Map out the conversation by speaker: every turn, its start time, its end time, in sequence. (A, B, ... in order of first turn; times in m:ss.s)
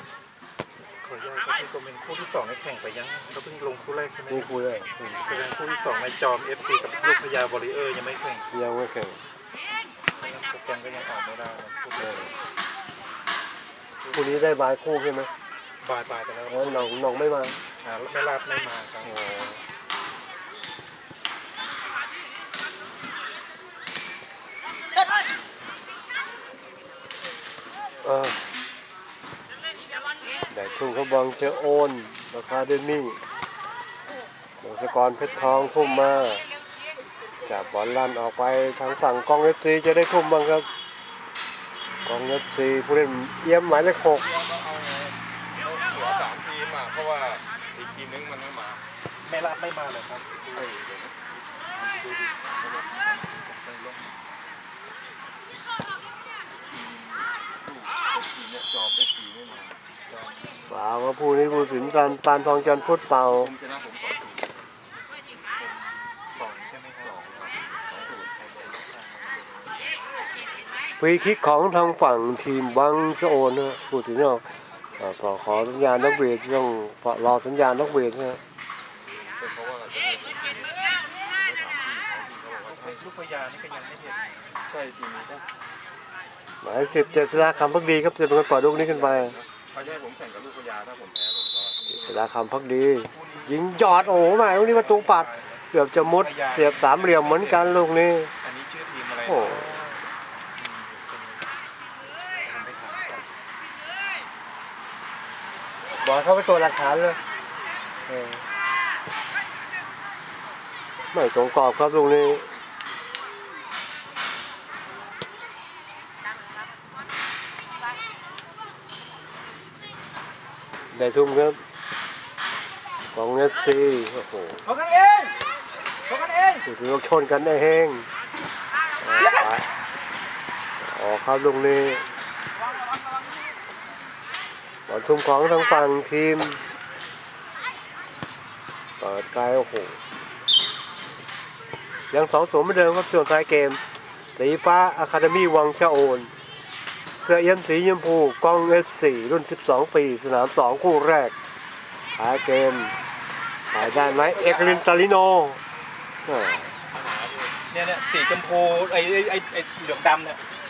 0:01.0-0:04.5 A
0:04.3-0:05.2 B
0:05.2-0:08.5 A
0:08.5-0:09.2 B
0:10.1-0:12.3 A
0:12.0-0:12.3 B
0:14.0-0:14.4 A
0:14.1-0:15.3 B
0:15.8-0:17.0 A
0:16.5-0:17.6 B
0:17.8-0:19.2 A
0:19.0-0:19.6 B
0:28.0-0:28.4 B
0:30.5-0:33.2 B
0:34.6-0:36.4 B
0:37.5-0:40.7 B
0:42.0-0:44.3 B
0:44.5-0:48.8 C
0:49.2-0:50.8 A
0:50.7-0:51.1 C
0:51.7-0:54.1 A
0:57.7-0:59.8 C
1:00.1-1:00.6 A
1:00.7-1:03.5 B
1:03.5-1:04.4 C
1:06.4-1:07.5 A
1:07.9-1:09.7 C
1:11.0-1:18.4 B
1:19.4-1:20.6 C
1:21.4-1:22.8 C
1:22.6-1:24.7 A
1:24.7-1:25.4 C
1:26.6-1:29.4 B
1:26.8-1:28.0 A
1:29.2-1:32.0 C
1:29.7-1:30.0 A
1:31.9-1:38.3 B
1:33.1-1:37.8 A
1:38.4-1:41.5 A
1:39.3-1:39.8 B
1:42.4-1:43.3 A
1:46.0-1:47.2 B
1:48.1-1:48.4 B
1:51.1-1:52.5 B
2:00.9-2:01.6 B
2:03.1-2:04.6 B
2:04.6-2:05.4 A
2:06.1-2:06.6 A
2:06.6-2:08.1 B
2:09.0-2:09.7 B
2:10.8-2:12.0 B
2:14.9-2:16.6 B
2:19.0-2:20.0 B
2:22.1-2:23.8 B
2:24.4-2:26.3 B
2:27.2-2:31.3 B
2:32.2-2:33.0 B
2:33.7-2:35.6 B
2:33.8-2:34.9 A
2:36.3-2:36.7 B
2:37.0-2:37.5 C
2:37.7-2:40.4 A